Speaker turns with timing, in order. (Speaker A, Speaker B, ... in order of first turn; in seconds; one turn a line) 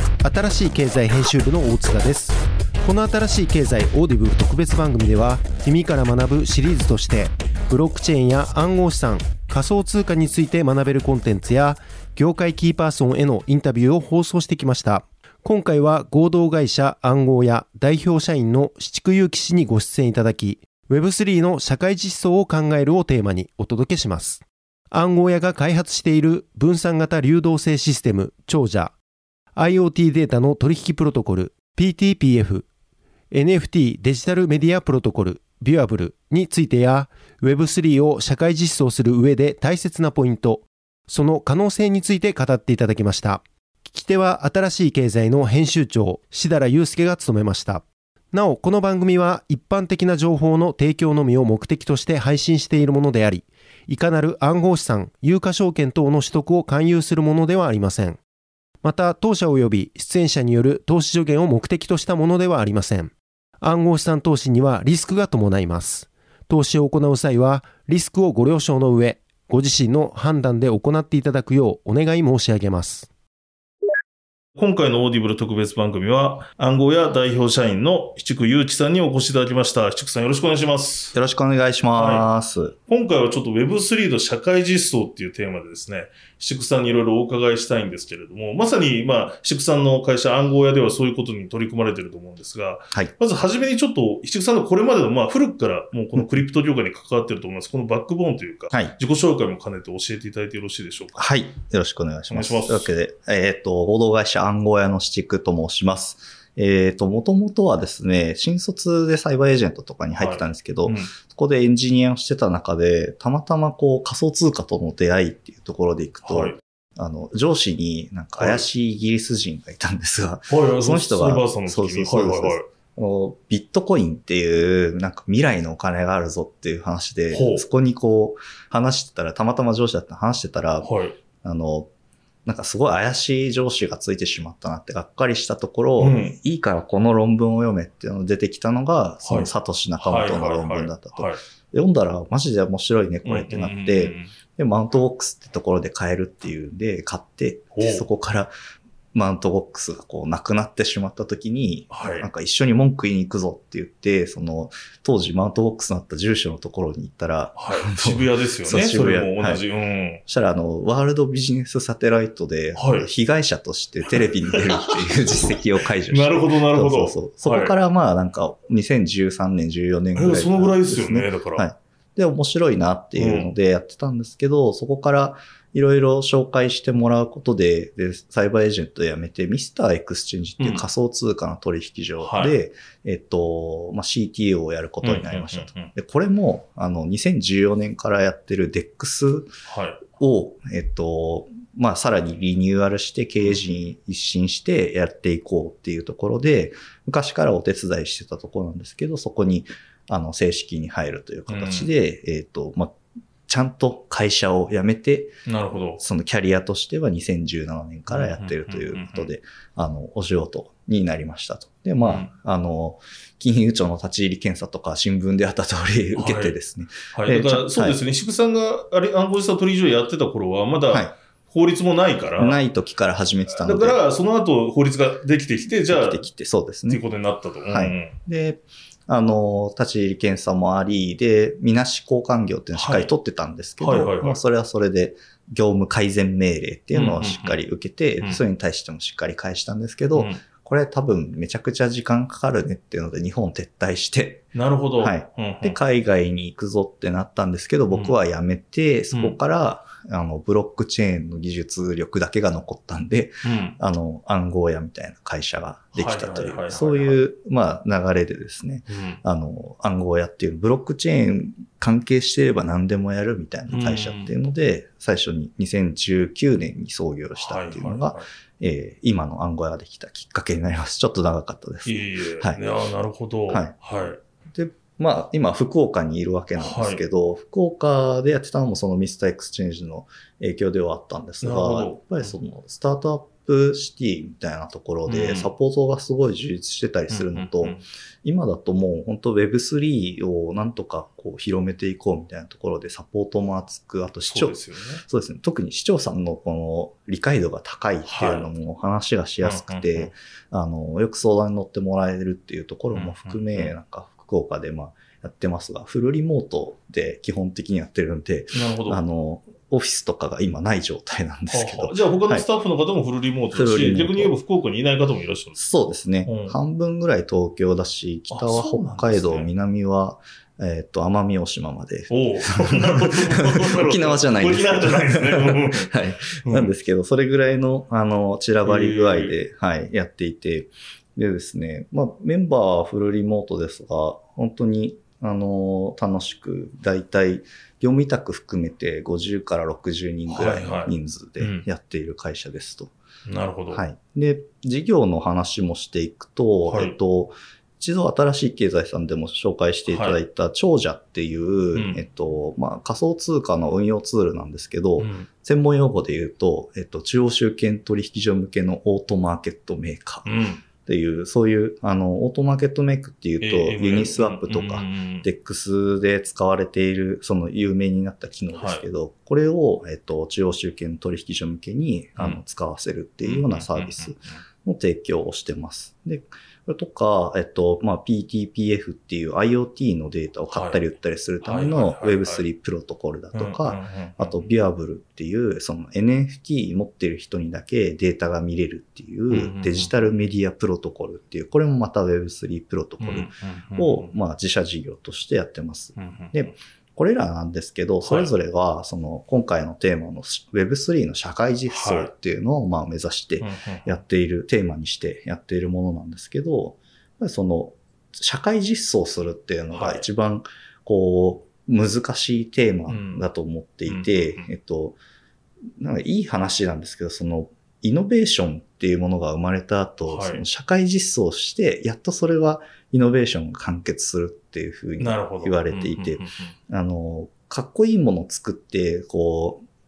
Speaker A: 0.2-28.9
Speaker A: 29.6-32.7
Speaker A: 33.3-58.2
Speaker A: 58.8-73.1
Speaker B: 74.6-81.2
Speaker C: 81.1-82.7
Speaker B: 82.0-82.3
Speaker B: 82.9-101.3
Speaker C: 101.2-130.9
Speaker B: 102.3-102.9
Speaker B: 110.1-111.1
Speaker B: 116.2-116.6
Speaker B: 118.4-118.7
Speaker B: 120.5-122.7
Speaker B: 127.3-127.7
Speaker B: 130.8-131.2
Speaker C: 131.4-131.9
Speaker C: 132.4-148.5
Speaker B: 136.0-136.4
Speaker B: 139.2-141.4
Speaker B: 143.2-144.3
Speaker B: 147.8-148.1
Speaker C: 149.1-159.6
Speaker B: 151.9-152.3
Speaker B: 157.6-160.2
Speaker C: 160.3-189.5
Speaker B: 162.8-163.1
Speaker B: 164.2-165.5
Speaker B: 166.1-167.7
Speaker B: 170.2-171.7
Speaker B: 173.2-173.5
Speaker B: 180.6-180.9
Speaker B: 182.2-182.6
Speaker B: 185.0-185.9
Speaker B: 189.7-190.0
Speaker C: 190.1-203.0
Speaker B: 201.5-201.9
Speaker C: 203.5-205.4
Speaker B: 205.5-206.0
Speaker C: 206.0-218.0
Speaker B: 208.1-209.3
Speaker B: 212.0-212.3
Speaker B: 216.2-216.6
Speaker B: 217.1-222.6
Speaker C: 220.9-221.2
Speaker C: 222.4-224.0
Speaker B: 223.6-226.2
Speaker C: 225.9-227.0
Speaker B: 226.9-228.2
Speaker C: 227.7-272.6
Speaker B: 232.8-233.1
Speaker B: 233.8-234.4
Speaker B: 236.9-237.6
Speaker B: 240.2-240.4
Speaker B: 244.5-245.8
Speaker B: 249.1-249.4
Speaker B: 253.4-253.8
Speaker B: 255.9-257.2
Speaker B: 258.9-259.2
Speaker B: 263.7-264.3
Speaker B: 267.4-268.2
Speaker B: 271.9-274.2
Speaker C: 273.5-273.8
Speaker C: 274.5-312.5
Speaker B: 276.6-277.0
Speaker B: 281.4-282.3
Speaker B: 285.1-285.5
Speaker B: 287.1-287.8
Speaker B: 294.3-295.0
Speaker B: 298.1-298.5
Speaker B: 299.4-300.1
Speaker B: 302.9-303.7
Speaker B: 308.5-309.0
Speaker B: 311.5-315.6
Speaker C: 313.5-314.4
Speaker C: 315.6-342.9
Speaker B: 316.2-316.6
Speaker B: 318.3-319.5
Speaker B: 322.1-326.7
Speaker B: 328.6-329.4
Speaker B: 340.3-341.7
Speaker B: 343.3-343.8
Speaker C: 343.7-415.0
Speaker B: 346.7-347.0
Speaker B: 349.9-350.2
Speaker B: 351.7-352.0
Speaker B: 355.0-355.3
Speaker B: 360.2-360.6
Speaker B: 363.4-365.3
Speaker B: 368.5-368.9
Speaker B: 373.2-374.4
Speaker B: 380.5-380.8
Speaker B: 381.4-382.4
Speaker B: 383.3-384.5
Speaker B: 389.3-389.9
Speaker B: 393.0-394.1
Speaker B: 396.0-396.5
Speaker B: 398.0-398.3
Speaker B: 401.7-402.1
Speaker B: 403.4-403.9
Speaker B: 409.7-410.1
Speaker B: 412.9-413.3
Speaker B: 413.9-414.5
Speaker C: 415.8-429.6
Speaker B: 420.1-420.4
Speaker B: 425.0-426.6